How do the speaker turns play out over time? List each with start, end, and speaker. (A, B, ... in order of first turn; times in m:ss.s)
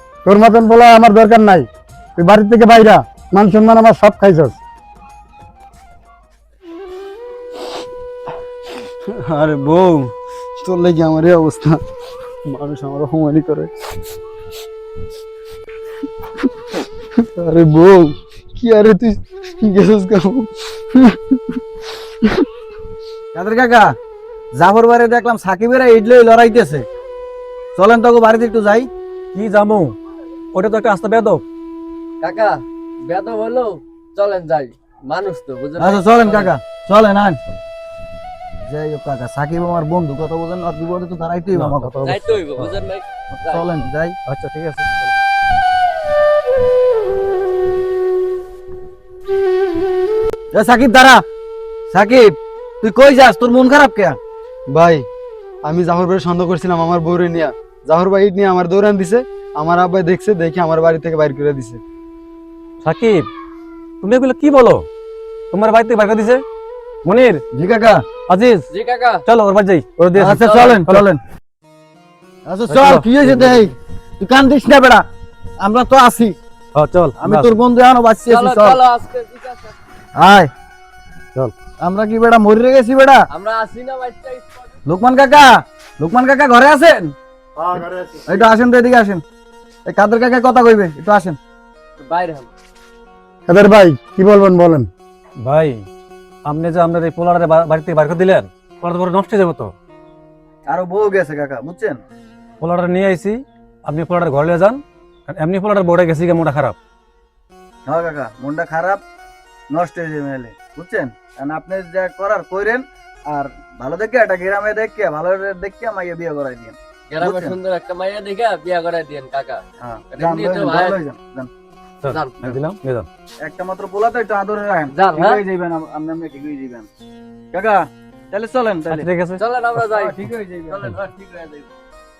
0:00.2-0:04.6 A
0:09.2-0:10.1 B
0:10.6-0:11.8 B
0:12.4-0:13.7 B
0:17.3-0:21.2 B
0:23.3-0:23.9 C
0:24.5-0:26.8 C
0:27.8-0:28.9 C
0:29.3-0:30.0 D
0:30.5-0:31.4 D
0:32.2-0:36.5 E
0:35.8-0:37.4 C
0:38.7-0:42.0 C
0:41.5-0:42.2 D
0:42.0-0:43.6 E
0:43.4-0:44.2 C
0:44.3-0:45.1 D
0:50.5-0:51.2 C
0:51.9-0:54.2 C
0:54.7-0:55.0 B
0:55.6-1:01.8 B
1:02.8-1:03.3 D
1:04.0-1:04.8 D
1:05.5-1:06.4 D
1:07.0-1:07.4 D
1:07.5-1:08.0 C
1:08.3-1:08.7 D
1:08.7-1:09.2 E
1:09.2-1:11.0 D
1:10.2-1:11.2 C
1:10.4-1:10.7 E
1:12.4-1:15.0 C
1:12.7-1:13.3 D
1:15.6-1:16.4 C
1:16.7-1:17.6 D
1:17.2-1:18.8 C
1:18.3-1:19.8 E
1:20.2-1:20.5 C
1:21.8-1:23.2 C
1:23.3-1:24.7 E
1:24.8-1:27.1 C
1:27.6-1:28.4 A
1:28.3-1:29.2 C
1:29.8-1:31.4 C
1:32.0-1:32.5 E
1:33.5-1:34.9 A
1:35.4-1:35.8 D
1:36.4-1:39.7 D
1:40.7-1:42.0 C
1:42.6-1:46.8 D
1:47.8-1:49.0 C
1:49.7-1:57.6 C
1:57.1-2:01.0 E
1:59.8-2:01.5 C
2:02.0-2:03.1 D
2:02.1-2:02.4 E
2:03.4-2:06.9 C
2:04.9-2:05.4 E
2:07.5-2:09.1 C
2:08.9-2:09.4 D
2:09.4-2:10.2 E
2:09.9-2:10.9 C
2:10.7-2:11.7 E